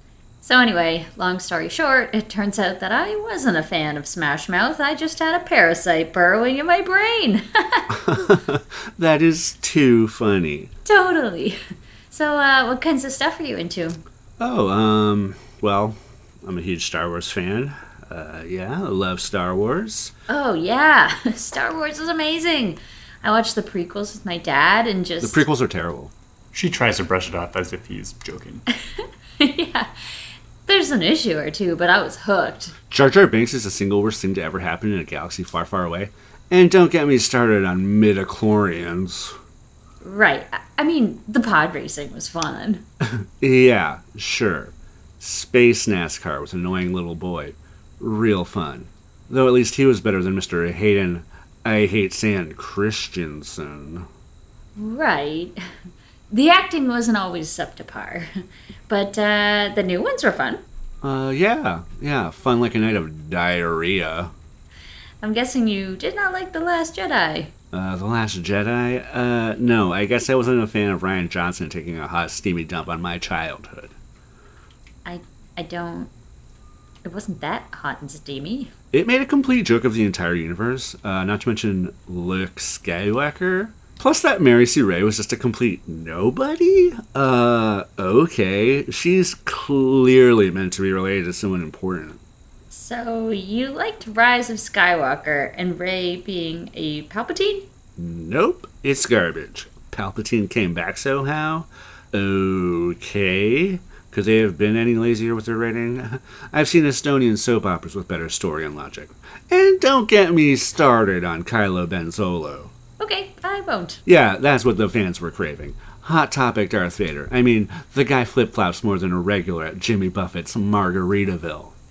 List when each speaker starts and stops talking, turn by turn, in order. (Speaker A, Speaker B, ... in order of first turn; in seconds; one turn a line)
Speaker A: 0.4-7.9
Speaker B: 7.9-10.7
Speaker A: 10.8-11.6
Speaker A: 12.1-14.0
Speaker B: 14.4-20.1
Speaker A: 20.3-25.4
Speaker B: 25.2-26.1
Speaker C: 26.5-28.6
Speaker A: 29.0-29.9
Speaker A: 30.7-32.8
Speaker B: 32.9-39.4
Speaker A: 40.0-42.8
Speaker B: 43.0-54.1
Speaker A: 54.8-55.6
Speaker A: 56.3-58.3
Speaker A: 58.9-60.6
Speaker B: 61.0-64.3
Speaker A: 65.2-67.5
Speaker B: 67.7-74.0
Speaker A: 75.0-76.1
Speaker A: 77.0-78.7
Speaker B: 78.9-92.2
Speaker A: 92.7-97.7
Speaker B: 98.0-112.7
Speaker A: 113.0-114.0
Speaker B: 114.1-121.7